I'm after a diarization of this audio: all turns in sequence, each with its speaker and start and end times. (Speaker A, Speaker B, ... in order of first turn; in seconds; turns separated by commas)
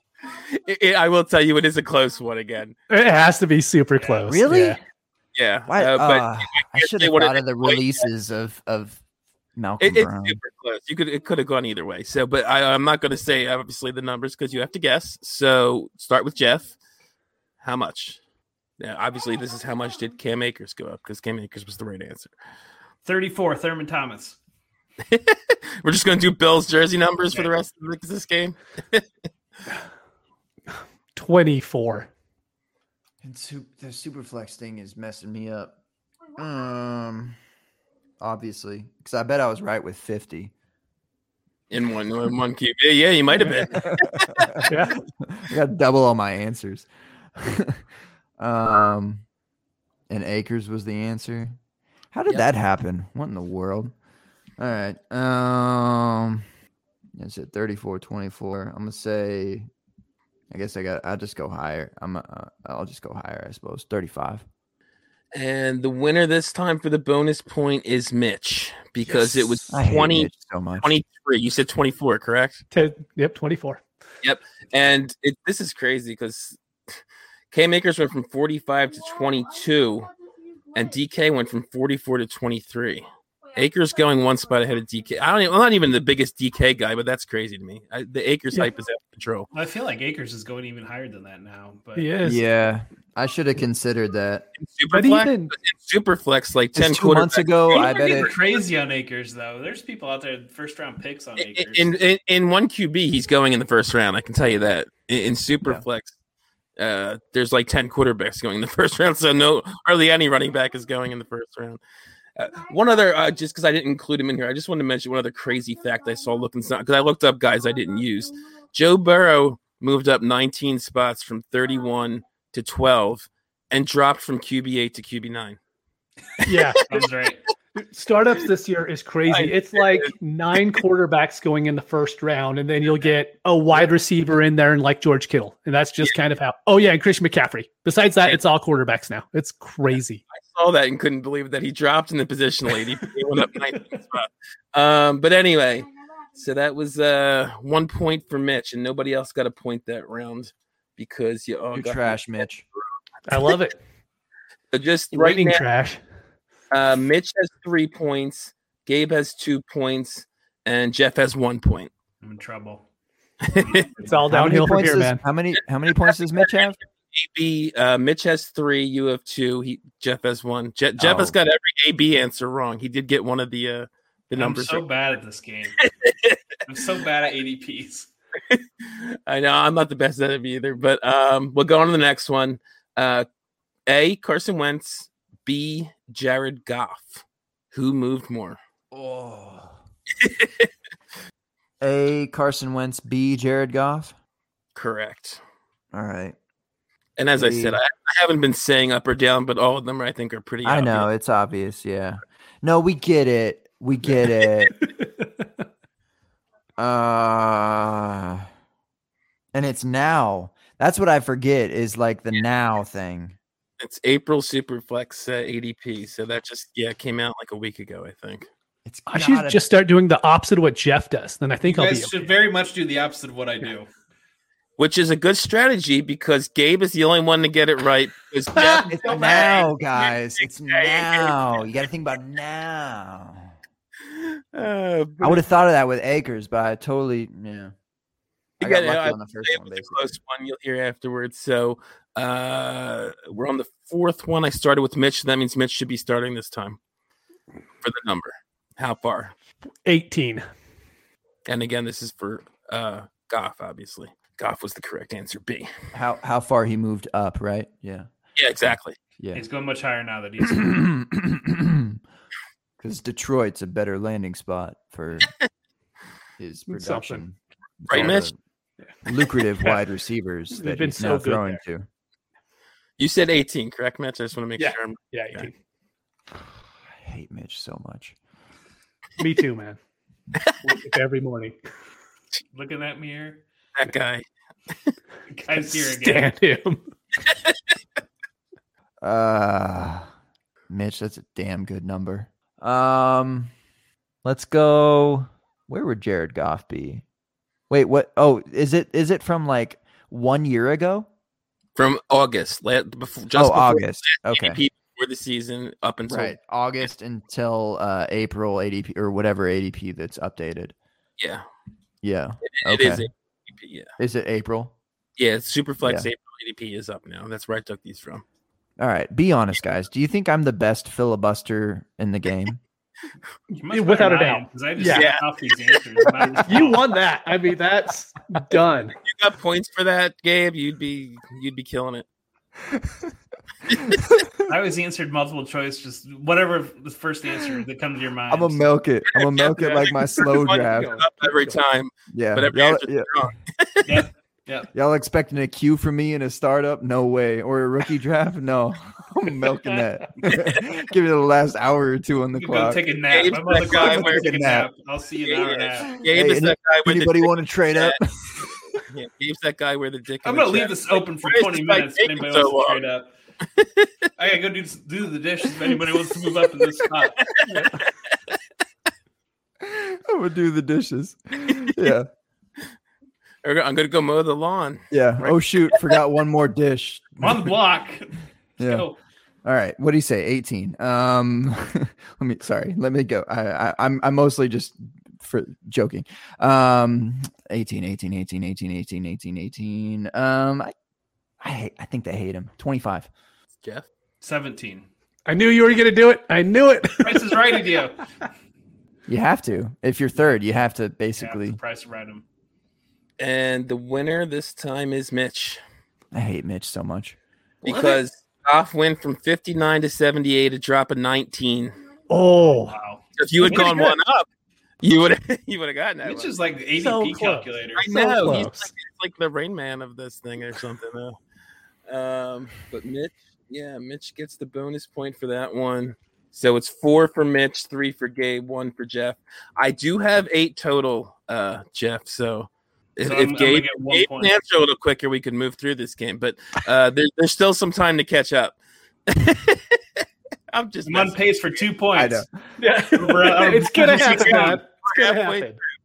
Speaker A: 0.5-2.7, Speaker B: 2.9-4.8, Speaker C: 4.2-4.8, Speaker A: 5.3-8.0, Speaker C: 5.7-9.0, Speaker C: 9.6-10.4, Speaker A: 9.8-16.7, Speaker A: 17.6-18.2, Speaker A: 18.8-22.3, Speaker D: 23.0-24.4, Speaker A: 25.1-29.1, Speaker B: 31.1-32.1, Speaker C: 33.2-35.8, Speaker C: 36.4-37.4, Speaker C: 38.2-40.5, Speaker A: 41.7-44.6, Speaker C: 43.7-47.8, Speaker B: 44.7-45.0, Speaker C: 48.4-49.2, Speaker C: 50.1-51.5, Speaker C: 52.1-53.9, Speaker C: 54.6-56.5, Speaker C: 57.1-59.7, Speaker C: 60.5-64.4, Speaker A: 65.3-70.3, Speaker C: 69.0-70.9, Speaker A: 70.8-72.6, Speaker B: 72.7-73.8, Speaker A: 74.2-76.6, Speaker A: 77.5-80.1, Speaker A: 80.7-89.5, Speaker D: 89.5-92.1, Speaker B: 92.0-92.4, Speaker C: 92.2-94.5, Speaker A: 94.6-97.8, Speaker B: 94.9-95.5, Speaker C: 96.7-98.3, Speaker D: 97.7-101.9, Speaker A: 101.4-106.1, Speaker A: 106.8-111.8, Speaker A: 112.4-125.6, Speaker A: 126.4-126.8, Speaker B: 126.4-127.0, Speaker D: 126.9-127.4, Speaker B: 127.8-140.2, Speaker A: 129.3-130.1, Speaker A: 140.3-152.2, Speaker C: 151.7-152.6, Speaker B: 153.3-153.8, Speaker A: 154.7-155.6, Speaker B: 155.1-156.0, Speaker A: 156.7-161.9, Speaker D: 162.2-162.8, Speaker A: 163.4-163.8, Speaker D: 163.5-164.3, Speaker B: 164.0-165.2, Speaker C: 164.3-166.8, Speaker A: 167.1-174.8, Speaker C: 171.0-171.3, Speaker D: 174.3-175.8, Speaker A: 175.8-176.4, Speaker D: 176.7-178.1, Speaker A: 178.5-183.2, Speaker A: 183.9-188.6, Speaker C: 188.9-189.8, Speaker A: 190.2-190.7, Speaker C: 191.8-194.1, Speaker A: 194.7-195.4, Speaker C: 195.9-196.3, Speaker A: 197.2-201.1, Speaker C: 197.3-197.8, Speaker C: 200.6-204.7, Speaker C: 206.8-208.5, Speaker C: 209.5-213.3, Speaker A: 213.8-218.5, Speaker C: 218.8-219.6, Speaker B: 219.1-222.3, Speaker D: 221.6-223.9, Speaker A: 224.8-231.4, Speaker B: 228.6-228.9, Speaker C: 228.8-233.5, Speaker A: 234.1-235.4, Speaker C: 235.2-237.7, Speaker A: 238.6-246.8, Speaker C: 238.6-240.1, Speaker A: 247.8-249.3, Speaker B: 249.8-250.4, Speaker A: 251.4-255.7, Speaker C: 255.9-258.1, Speaker A: 258.4-259.0, Speaker C: 258.6-259.4, Speaker D: 259.3-260.9, Speaker C: 260.5-262.0, Speaker C: 262.8-265.3, Speaker C: 266.4-268.4, Speaker B: 266.7-267.2, Speaker A: 267.9-268.3, Speaker C: 269.0-271.9, Speaker B: 270.5-271.6, Speaker A: 273.0-275.5, Speaker B: 274.6-275.5, Speaker C: 277.0-278.1, Speaker B: 279.2-279.8, Speaker B: 280.6-281.6, Speaker D: 282.5-283.4, Speaker A: 283.8-284.2, Speaker D: 285.4-286.3, Speaker B: 285.5-286.8, Speaker A: 287.2-287.6, Speaker C: 289.0-290.1, Speaker C: 290.7-293.5, Speaker C: 294.2-297.0, Speaker C: 297.7-301.1, Speaker A: 301.8-306.4, Speaker C: 303.3-304.6, Speaker C: 306.1-310.7, Speaker A: 311.2-311.4, Speaker C: 312.0-313.1, Speaker A: 312.4-313.9, Speaker C: 314.0-314.7, Speaker A: 315.2-318.2, Speaker C: 315.8-316.1, Speaker C: 318.8-322.6, Speaker D: 323.5-326.9, Speaker B: 323.7-325.1, Speaker A: 324.9-325.2, Speaker B: 326.4-328.9, Speaker A: 329.0-332.1, Speaker D: 334.4-338.7, Speaker C: 338.3-341.0, Speaker A: 339.1-344.0, Speaker B: 340.4-341.6, Speaker C: 342.1-343.1, Speaker D: 343.9-344.7, Speaker C: 344.7-352.8, Speaker D: 352.3-356.0, Speaker A: 353.1-354.3, Speaker C: 353.7-354.7, Speaker A: 355.2-358.0, Speaker C: 356.0-358.8, Speaker A: 358.9-362.8, Speaker D: 360.2-363.1, Speaker A: 363.5-363.9, Speaker D: 364.2-367.3, Speaker A: 367.2-367.9, Speaker B: 367.5-367.7, Speaker C: 369.6-372.1, Speaker A: 373.4-375.4, Speaker C: 374.9-377.5, Speaker D: 377.2-379.0, Speaker C: 378.6-378.9, Speaker C: 379.4-390.7, Speaker C: 391.4-393.1, Speaker D: 394.2-394.9, Speaker B: 395.3-397.7, Speaker D: 397.0-398.0, Speaker C: 399.1-401.6, Speaker D: 401.2-402.2, Speaker A: 403.2-405.6, Speaker C: 406.1-407.2, Speaker A: 407.6-411.8, Speaker D: 407.6-408.0, Speaker B: 412.1-412.8, Speaker D: 412.4-413.6, Speaker A: 413.2-414.3, Speaker B: 413.4-413.9, Speaker A: 414.8-416.3, Speaker D: 416.0-418.4, Speaker B: 416.8-418.7, Speaker A: 417.8-421.2, Speaker A: 421.9-438.6, Speaker D: 433.0-434.3, Speaker A: 439.1-441.6, Speaker D: 440.9-442.2, Speaker C: 441.9-442.3, Speaker B: 442.6-445.6, Speaker D: 442.9-444.6, Speaker A: 443.9-445.5